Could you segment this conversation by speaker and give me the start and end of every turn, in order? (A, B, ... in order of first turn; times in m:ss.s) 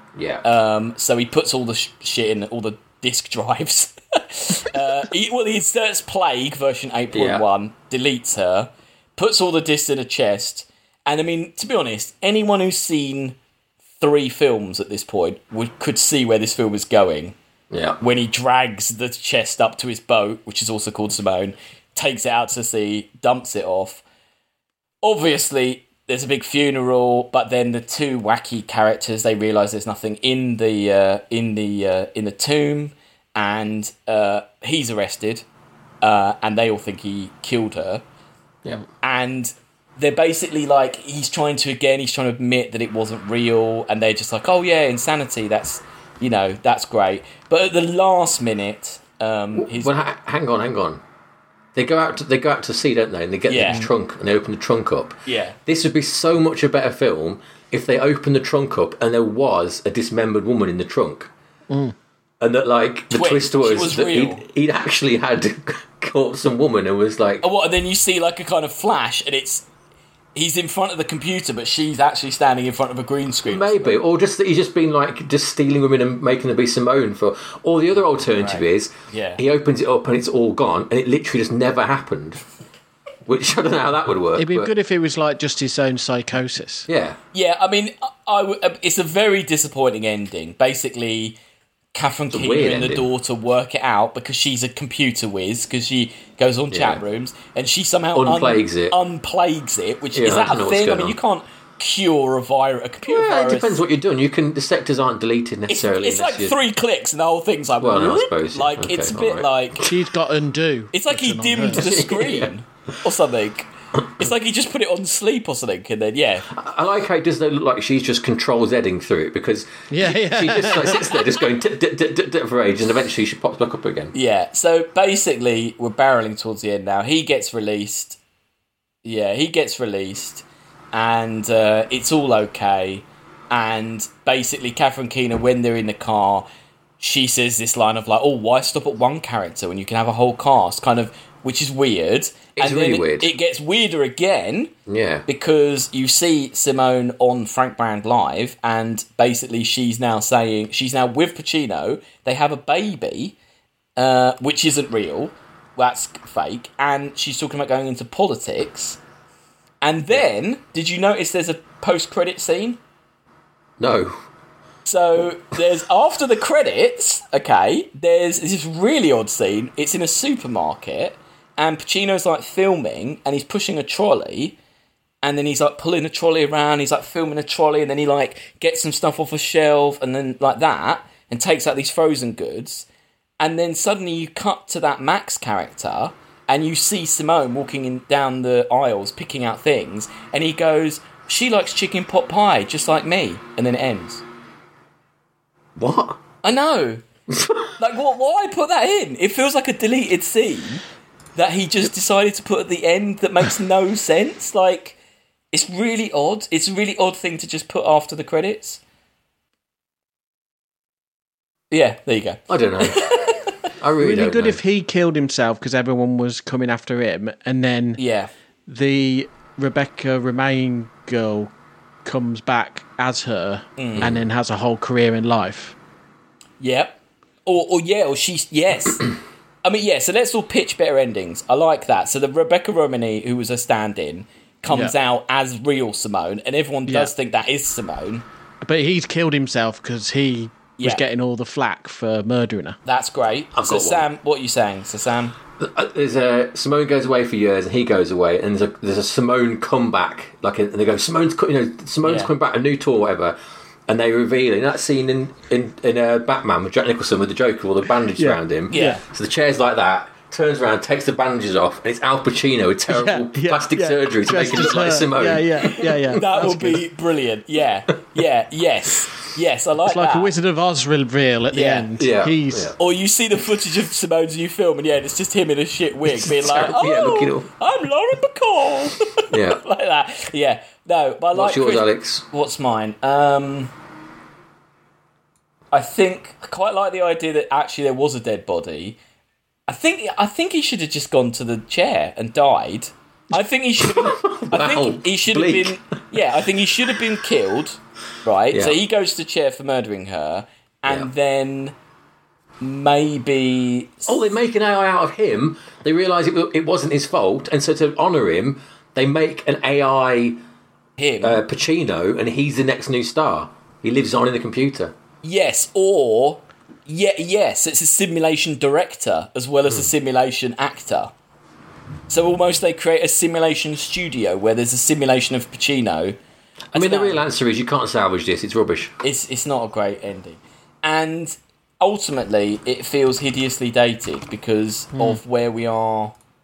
0:00.1-0:00.4 A
0:00.4-0:13.4 B
0:07.1-0:07.4 A
0:14.0-0:17.4 B
0:17.7-0:18.0 A
0:18.0-0:24.0 B
0:25.0-0:35.4 B
0:36.0-0:38.0 B
0:39.0-0:49.9 B
0:49.5-0:51.0 A
0:51.7-1:01.3 A
0:53.5-0:53.9 B
0:55.2-0:55.6 B
1:01.7-1:01.9 C
1:02.4-1:07.4 A
1:03.1-1:04.4 B
1:07.4-1:09.7 B
1:10.3-1:14.0 B
1:13.5-1:22.4 A
1:18.3-1:19.4 B
1:23.2-1:24.7 A
1:24.4-1:26.9 C
1:26.9-1:27.2 A
1:27.3-1:31.4 B
1:31.9-1:43.8 B
1:32.3-1:33.0 A
1:36.7-1:37.0 A
1:38.1-1:39.0 A
1:40.1-1:41.1 A
1:43.1-1:46.6 A
1:45.7-1:49.9 B
1:47.8-1:49.5 A
1:49.8-1:51.9 C
1:50.9-1:56.5 B
1:51.7-1:52.5 A
1:56.5-2:04.1 A
1:59.9-2:01.2 C
2:04.1-2:08.2 B
2:09.0-2:16.5 B
2:17.0-2:24.7 B
2:22.6-2:23.3 A
2:24.9-2:25.2 A
2:25.2-2:33.4 B
2:34.0-2:39.0 B
2:39.8-2:42.8 B
2:43.8-2:44.2 A
2:44.8-2:54.6 B
2:55.2-3:02.9 B
3:03.4-3:14.2 B
3:15.8-3:16.2 A
3:16.4-3:17.0 B
3:17.3-3:17.7 A
3:17.8-3:20.8 B
3:21.4-3:25.0 B
3:25.5-3:28.8 B
3:31.7-3:33.7 B
3:32.5-3:33.1 A
3:33.8-3:34.6 A
3:34.0-3:38.0 C
3:38.0-3:38.3 B
3:38.6-3:41.5 C
3:42.0-3:45.8 C
3:43.8-3:44.1 B
3:46.6-3:49.1 B
3:49.6-3:58.2 B
3:54.6-3:54.9 C
3:56.8-3:57.1 C
3:58.6-4:02.8 C
4:00.8-4:01.0 B
4:02.8-4:05.4 B
4:03.5-4:04.1 A
4:05.6-4:13.4 A
4:12.0-4:12.3 B
4:13.9-4:26.2 A
4:18.2-4:19.0 C
4:18.7-4:19.0 B
4:22.9-4:26.8 C
4:26.1-4:30.3 B
4:29.8-4:32.7 C
4:31.5-4:31.9 B
4:32.0-4:32.8 A
4:32.8-4:43.7 B
4:36.0-4:37.5 A
4:39.3-4:39.6 A
4:41.3-4:42.2 A
4:45.7-4:49.0 B
4:49.7-5:01.7 B
4:53.8-4:55.8 A
4:58.5-4:58.8 A
5:02.6-5:04.3 B
5:04.1-5:10.4 A
5:11.0-5:11.4 B
5:11.2-5:14.9 A
5:15.2-5:21.1 B
5:22.1-5:26.2 B
5:26.7-5:27.2 B
5:26.7-5:29.0 A
5:29.0-5:36.1 B
5:34.9-5:35.2 C